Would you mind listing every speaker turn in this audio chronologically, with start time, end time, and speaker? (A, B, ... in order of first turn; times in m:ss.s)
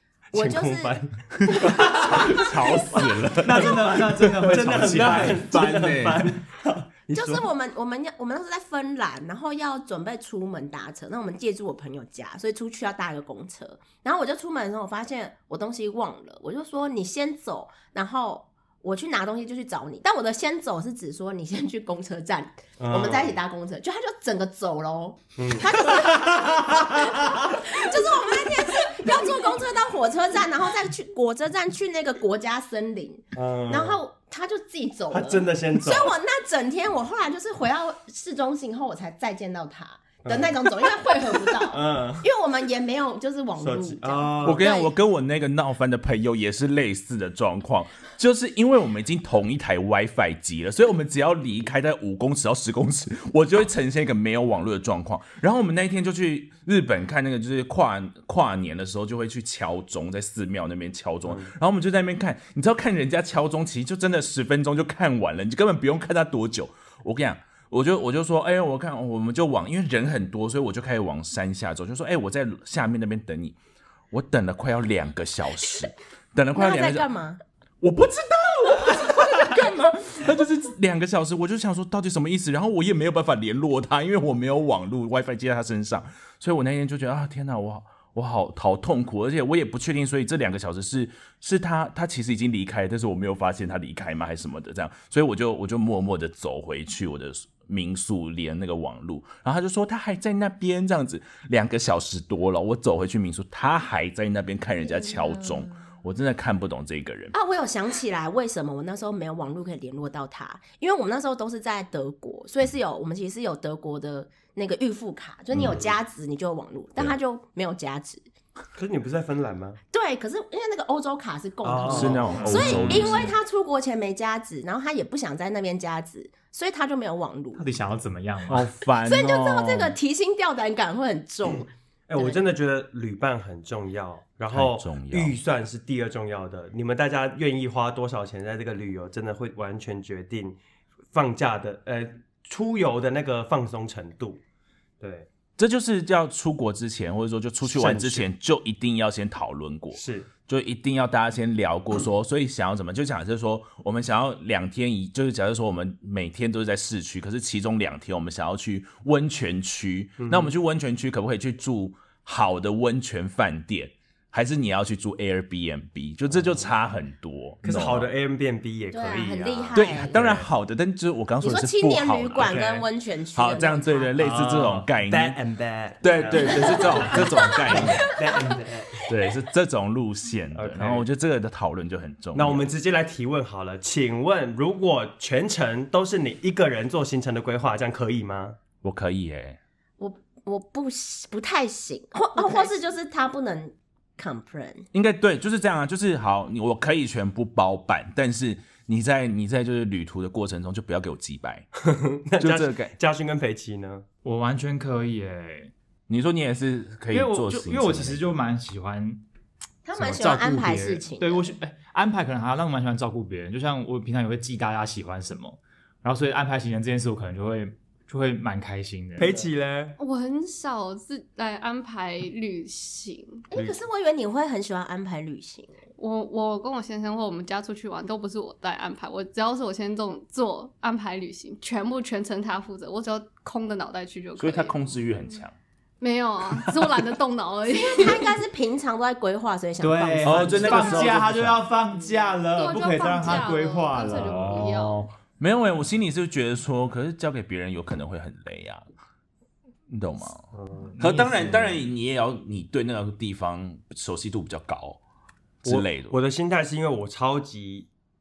0:00.3-0:07.4 A
0:00.3-0:01.0 B
0:01.8-0:06.3 C
0:03.3-0:06.1 D
0:07.1-0:44.9 B
0:22.8-0:23.4 A
0:25.4-0:26.8 A
0:27.3-0:27.6 A
0:33.3-0:34.0 A
0:35.1-0:36.1 A
0:40.2-0:40.6 A
0:41.6-0:42.3 A
0:43.6-0:44.6 A
0:44.4-1:13.6 C
1:01.2-1:01.5 A
1:14.1-1:17.1 C
1:16.6-1:17.4 B
1:17.8-1:47.4 C
1:47.3-1:58.2 B
1:55.5-1:55.8 C
1:58.8-1:59.8 A
1:59.9-2:07.6 B
2:01.6-2:03.1 A
2:01.8-2:03.3 C
2:02.3-2:03.3 D
2:07.5-2:08.7 D
2:08.4-2:10.0 C
2:09.0-2:12.4 B
2:12.1-2:20.6 A
2:14.5-2:15.4 C
2:21.1-2:24.4 A
2:25.0-2:25.3 A
2:25.6-2:48.1 C
2:27.6-2:28.3 A
2:29.9-2:30.3 A
2:40.2-2:40.5 A
2:46.4-2:46.7 A
2:47.6-2:50.5 A
2:48.9-2:50.1 B
2:49.7-2:52.7 C
2:51.4-2:54.4 B
2:52.4-2:52.9 A
2:53.3-2:55.4 C
2:54.2-2:59.1 A
2:56.0-2:58.2 C
2:56.4-2:58.4 B
2:59.1-3:02.7 C
3:00.5-3:01.1 A
3:02.3-3:08.6 A
3:08.8-3:09.6 C
3:10.0-3:14.9 B
3:12.4-3:12.7 E
3:14.9-3:21.7 C
3:21.8-3:24.0 A
3:22.4-3:22.9 C
3:24.2-3:25.7 D
3:26.1-3:28.3 C
3:27.1-3:29.2 D
3:29.8-3:31.5 B
3:29.9-3:39.3 D
3:39.2-3:40.0 A
3:40.0-3:43.4 E
3:43.5-3:45.8 B
3:43.5-3:43.8 A
3:46.0-3:54.7 E
3:54.4-3:55.6 C
3:56.0-3:58.4 E
3:57.8-4:01.2 B
3:59.8-4:05.0 D
4:00.2-4:01.6 C
4:02.5-4:05.1 E
4:04.2-4:04.8 C
4:05.4-4:08.8 C
4:09.9-4:10.4 C
4:10.5-4:10.9 A
4:10.9-4:11.8 D
4:11.0-4:15.0 C
4:15.6-4:16.2 C
4:15.6-4:17.9 A